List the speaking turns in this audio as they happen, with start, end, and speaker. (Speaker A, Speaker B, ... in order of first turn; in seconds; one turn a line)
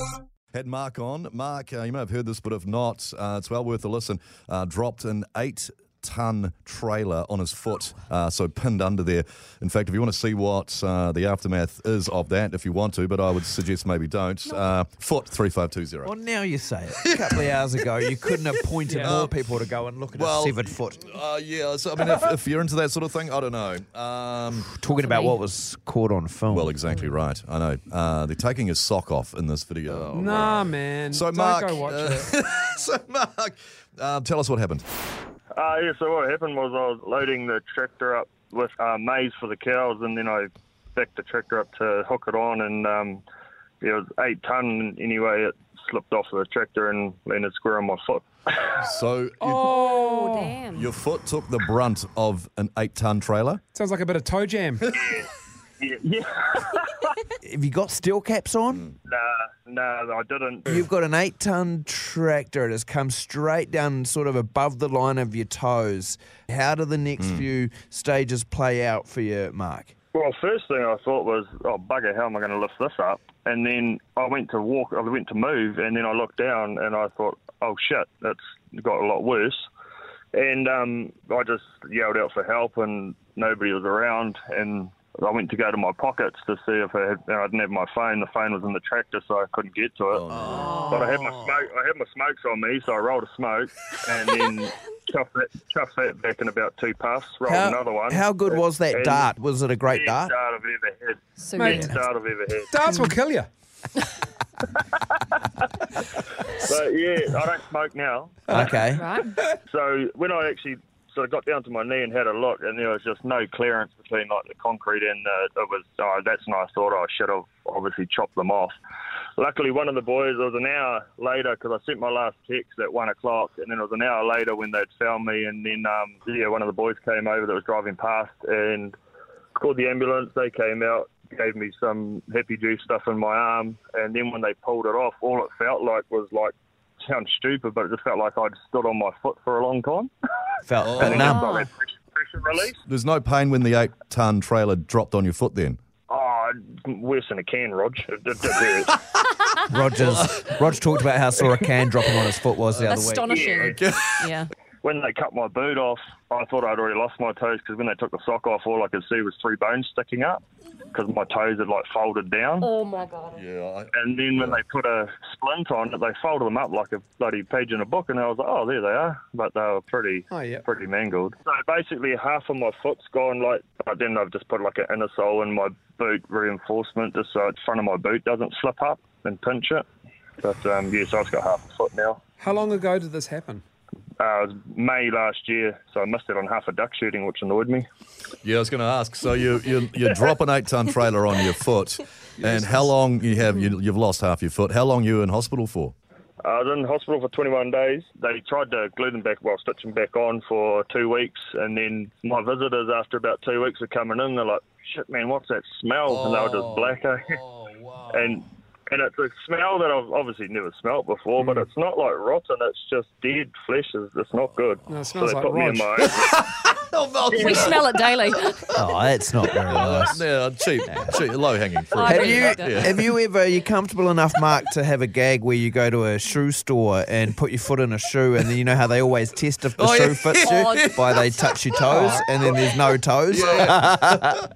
Speaker A: 0.5-16.1
Speaker B: 16.0-21.1
Speaker A: 17.1-17.4
Speaker C: 18.9-19.2
Speaker A: 19.0-19.3
Speaker A: 20.1-24.7
Speaker B: 24.8-26.8
Speaker D: 25.0-25.4
Speaker A: 26.5-34.8
Speaker C: 30.1-32.3
Speaker E: 35.5-43.2
Speaker E: 43.8-48.8
Speaker A: 48.8-50.0
Speaker C: 49.4-50.6
Speaker D: 49.7-50.9
Speaker A: 50.7-53.6
Speaker C: 53.7-54.9
Speaker E: 54.9-57.1
Speaker B: 57.4-58.9
Speaker E: 59.1-60.9
Speaker B: 60.7-69.9
Speaker A: 67.2-67.5
Speaker E: 70.1-79.7
Speaker E: 80.3-90.3
Speaker A: 90.1-90.9
Speaker B: 90.3-91.6
Speaker D: 90.7-91.0
Speaker E: 90.9-99.3
Speaker B: 97.5-100.3
Speaker E: 99.9-102.8
Speaker D: 101.4-101.8
Speaker C: 101.6-101.9
Speaker C: 102.7-103.5
Speaker E: 104.8-105.2
Speaker E: 106.5-108.7
Speaker B: 108.5-109.1
Speaker D: 109.0-109.3
Speaker E: 109.7-118.8
Speaker E: 119.4-129.0
Speaker E: 129.6-140.1
Speaker B: 140.7-141.5
Speaker A: 140.8-141.4
Speaker E: 140.8-142.8
Speaker D: 141.2-141.7
Speaker A: 142.9-145.8
Speaker E: 146.1-148.9
Speaker B: 149.7-153.3
Speaker A: 150.0-150.4
Speaker A: 152.7-154.5
Speaker D: 152.8-154.5
Speaker E: 153.3-153.8
Speaker E: 154.8-160.4
Speaker E: 160.9-162.7
Speaker D: 162.6-163.4
Speaker A: 163.3-164.6
Speaker E: 163.9-179.8
Speaker C: 170.3-170.6
Speaker E: 180.4-182.2
Speaker C: 182.4-183.6
Speaker E: 184.2-187.8
Speaker A: 188.4-195.9
Speaker C: 192.4-192.9
Speaker E: 196.4-207.3
Speaker A: 206.1-208.4
Speaker E: 208.1-216.3
Speaker C: 214.9-215.9
Speaker A: 216.0-218.8
Speaker E: 217.3-217.8
Speaker D: 217.3-218.6
Speaker B: 218.7-220.2
Speaker A: 219.5-223.1
Speaker B: 220.9-221.2
Speaker D: 221.9-222.9
Speaker B: 222.0-234.3
Speaker A: 229.8-232.6
Speaker D: 230.4-230.9
Speaker A: 233.3-234.4